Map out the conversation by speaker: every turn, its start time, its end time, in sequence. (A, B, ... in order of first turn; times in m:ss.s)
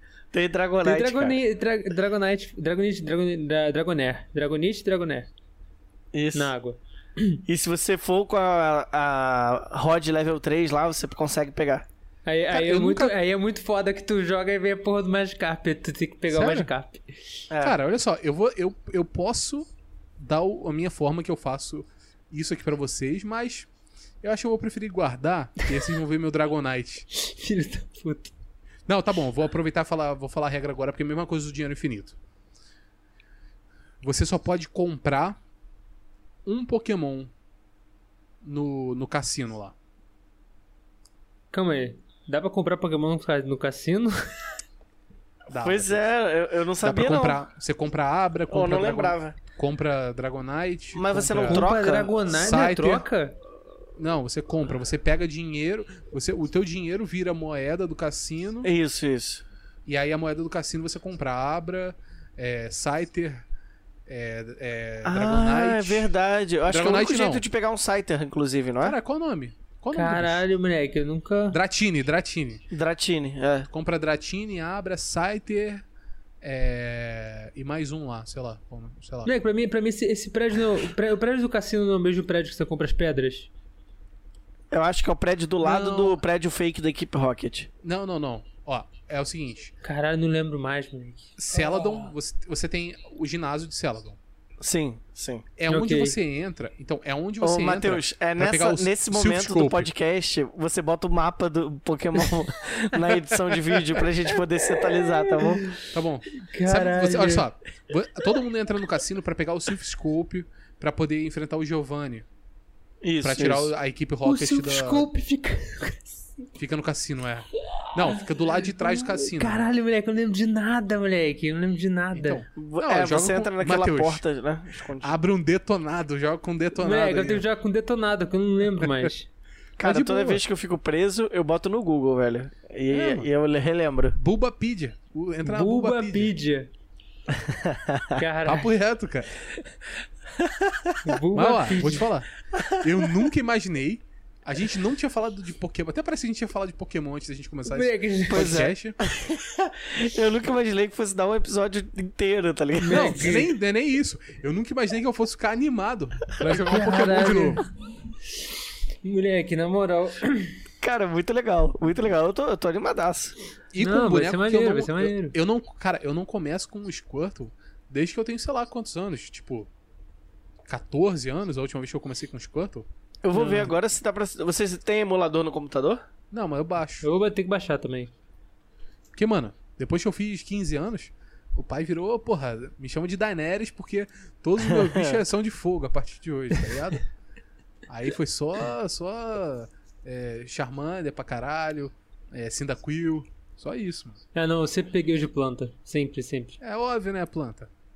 0:00.3-0:01.4 A
0:00.8-0:05.3 B
0:06.1-0:06.5 A
0:06.3-0:07.4 B
0:07.5-0:11.8 A
0:12.2-0:17.1 B
0:12.5-0:13.1 C
0:16.3-0:16.7 C
0:17.5-0:17.8 A
0:17.6-0:23.7 C
0:24.2-0:27.1 C
0:27.1-0:28.3 B
0:28.9-0:32.2 C
0:34.0-0:35.4 C
0:36.4-0:37.3 C
0:38.4-0:39.8 C
0:41.5-0:44.2 B
0:45.5-0:46.0 C
0:45.6-0:47.4 A
0:46.8-0:51.6 C
0:48.5-0:49.4 A
0:50.9-0:52.2 A
0:51.5-0:53.4 B
0:52.3-0:53.0 C
0:54.0-0:58.7 C
0:58.6-0:59.4 A
0:59.9-1:03.4 C
1:04.1-1:06.1 C
1:05.0-1:09.0 A
1:06.7-1:07.4 C
1:08.8-1:10.4 C
1:09.9-1:11.6 B
1:11.5-1:12.6 C
1:12.7-1:13.7 A
1:13.7-1:15.8 C
1:16.4-1:19.3 C
1:19.2-1:23.5 B
1:24.7-1:27.7 A
1:25.6-1:26.2 C
1:27.8-1:29.7 C
1:29.8-1:32.1 B
1:31.4-1:34.2 C
1:34.6-1:35.4 A
1:35.6-1:39.9 C
1:35.7-1:36.2 B
1:37.4-1:45.8 A
1:45.0-1:47.5 B
1:45.9-1:52.3 C
1:53.0-1:53.7 A
1:53.2-1:55.1 C
1:54.2-1:56.2 B
1:56.6-1:59.6 C
1:58.0-2:02.4 B
2:02.1-2:04.2 C
2:02.6-2:05.1 A
2:05.0-2:07.4 C
2:06.8-2:09.3 B
2:08.8-2:09.1 C
2:09.8-2:14.2 A
2:09.8-2:10.4 C
2:12.9-2:13.3 C
2:14.2-2:16.3 C
2:15.4-2:16.7 B
2:17.4-2:18.2 A
2:18.2-2:18.7 B
2:18.4-2:19.3 C
2:20.4-2:21.0 A
2:21.0-2:22.1 B
2:21.3-2:29.0 C
2:22.5-2:23.1 A
2:27.7-2:28.6 B
2:28.3-2:33.4 A
2:32.8-2:33.5 B
2:32.9-2:37.6 C
2:36.6-2:37.7 B
2:39.0-2:40.6 B
2:40.8-2:43.4 A
2:43.7-2:49.7 C
2:43.8-2:45.4 B
2:50.7-2:52.9 C
2:53.2-2:56.0 A
2:53.3-2:53.7 B
2:56.3-2:57.1 C
2:57.0-2:58.1 B
2:59.2-3:07.0 C
3:04.7-3:05.2 A
3:07.9-3:14.2 C
3:14.3-3:16.6 B
3:16.6-3:17.7 C